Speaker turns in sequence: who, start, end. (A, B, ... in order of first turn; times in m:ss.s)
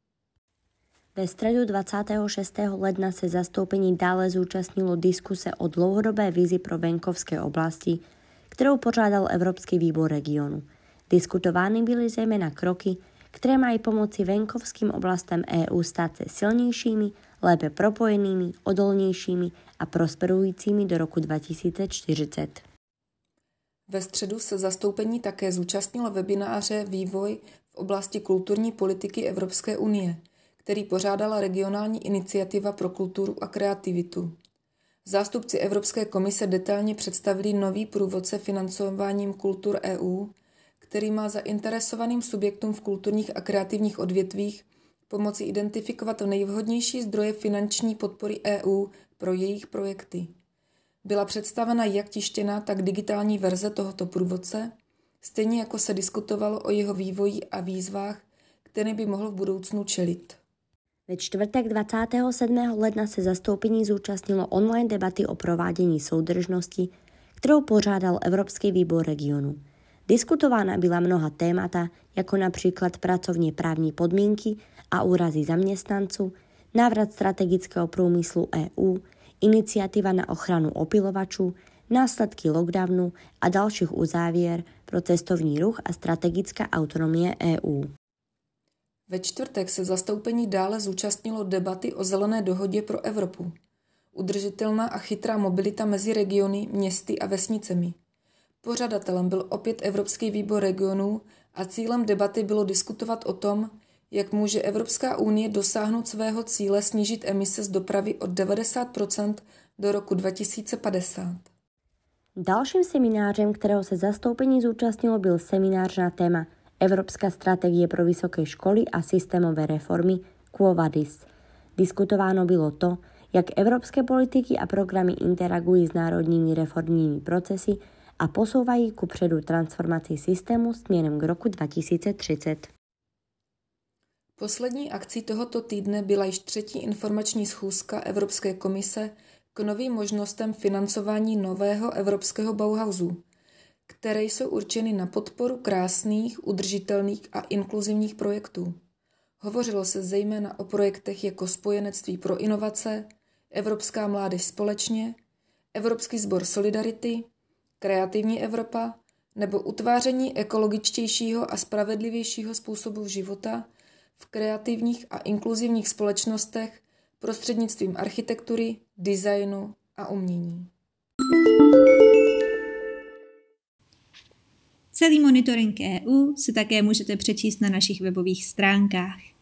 0:01.2-0:22.6 A
0:23.9-0:34.3 B
0:35.0-0:50.3 B
0:51.0-1:00.4 B
1:01.1-1:27.9 A
1:29.1-1:33.5 B
1:34.1-1:38.0 B
1:38.6-1:51.5 B
1:52.4-2:12.7 A
2:14.4-2:23.2 B
2:23.9-2:28.8 B
2:29.4-2:35.2 B
2:35.7-2:37.3 B
2:37.8-2:50.7 B
2:54.9-2:59.2 C